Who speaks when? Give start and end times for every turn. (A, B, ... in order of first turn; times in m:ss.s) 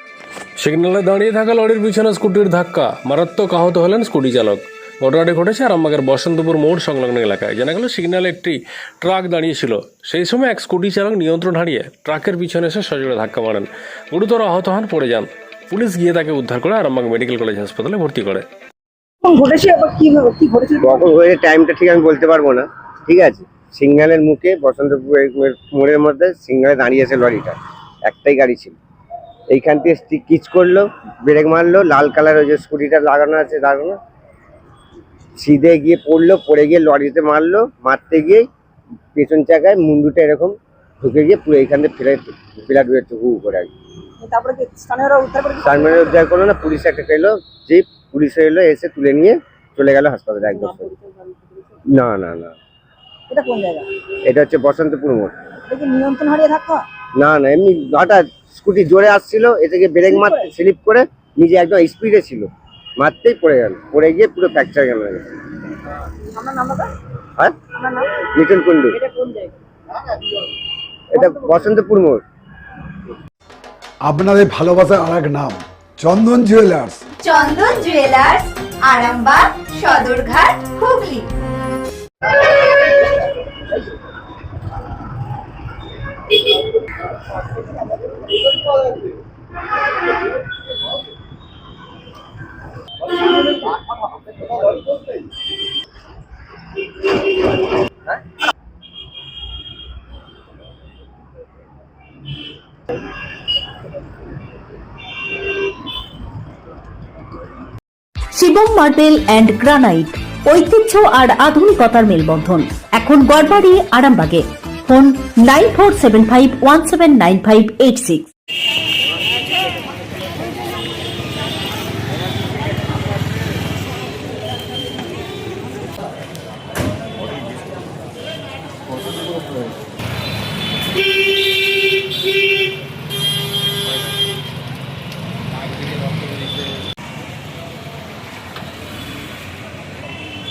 0:00.6-0:18.4 A
0:19.2-0:21.0 B
0:20.8-0:28.8 C
0:29.5-0:34.0 C
0:35.4-0:38.4 C
0:39.1-0:43.7 C
0:44.2-0:46.2 B
0:45.6-0:50.9 C
0:50.5-0:51.3 B
0:51.9-0:52.5 C
0:53.3-0:53.9 B
0:54.2-0:55.4 C
0:55.7-0:56.8 B
0:57.2-1:05.3 C
1:00.0-1:00.5 B
1:06.3-1:06.9 B
1:07.8-1:08.1 B
1:08.4-1:09.0 C
1:08.9-1:09.5 B
1:11.1-1:12.2 C
1:11.1-1:11.6 B
1:14.0-1:17.0 D
1:17.2-1:21.2 E
1:48.3-1:58.3 F